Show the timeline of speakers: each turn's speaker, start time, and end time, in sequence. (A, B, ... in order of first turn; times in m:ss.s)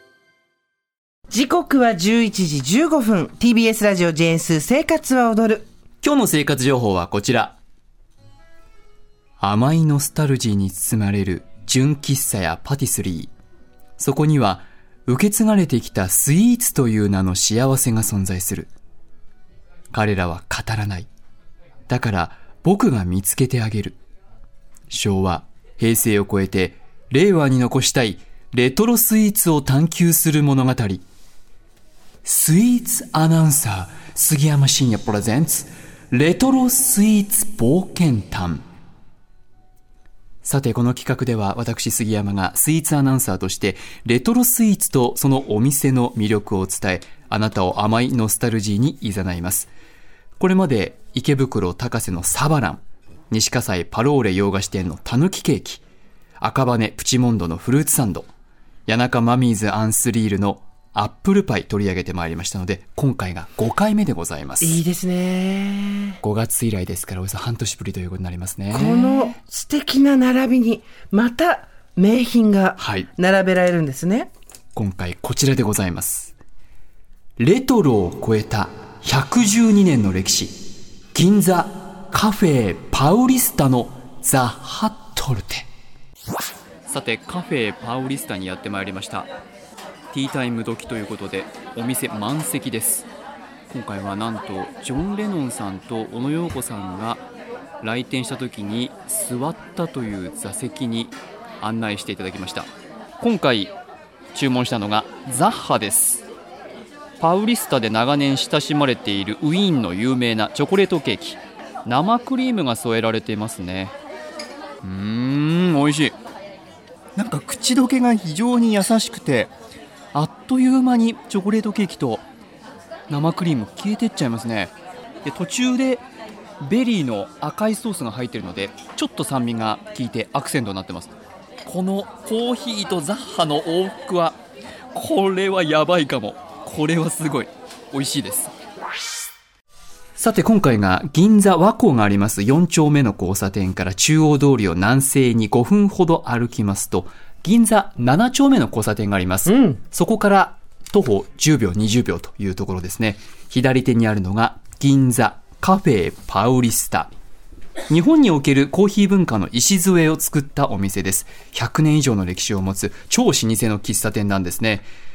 0:01.3-0:05.7 A
0:06.0-0:07.6 B
0:09.4-0:13.3 B
0:14.0-0:18.7 B
0:19.9-0:21.1 B
0:21.9-0:24.0 B
0:24.9-0:31.0 B
0:32.2-0:38.6 B
0:40.4-0:49.7 B
0:50.4-0:55.8 B
0:56.4-0:58.3 B
0:58.9-1:04.8 B
1:04.6-1:06.2 A
1:06.2-1:09.4 B
1:08.7-1:14.3 A
1:12.8-1:13.1 B
1:14.8-1:16.3 B
1:17.4-1:20.6 B
1:21.1-1:25.7 B
1:26.9-1:29.3 B
1:30.1-1:33.1 B
1:33.7-1:37.2 B
1:37.8-1:42.7 B
1:43.2-1:43.7 B
1:44.3-1:46.2 B
1:47.2-1:53.9 B
1:54.8-1:56.2 B
1:57.2-1:59.5 B
2:00.1-2:02.2 B
2:03.1-2:06.1 B
2:06.6-2:14.4 B
2:14.9-2:18.5 B
2:20.2-2:37.1 B
2:29.5-2:29.8 A
2:37.9-2:44.9 B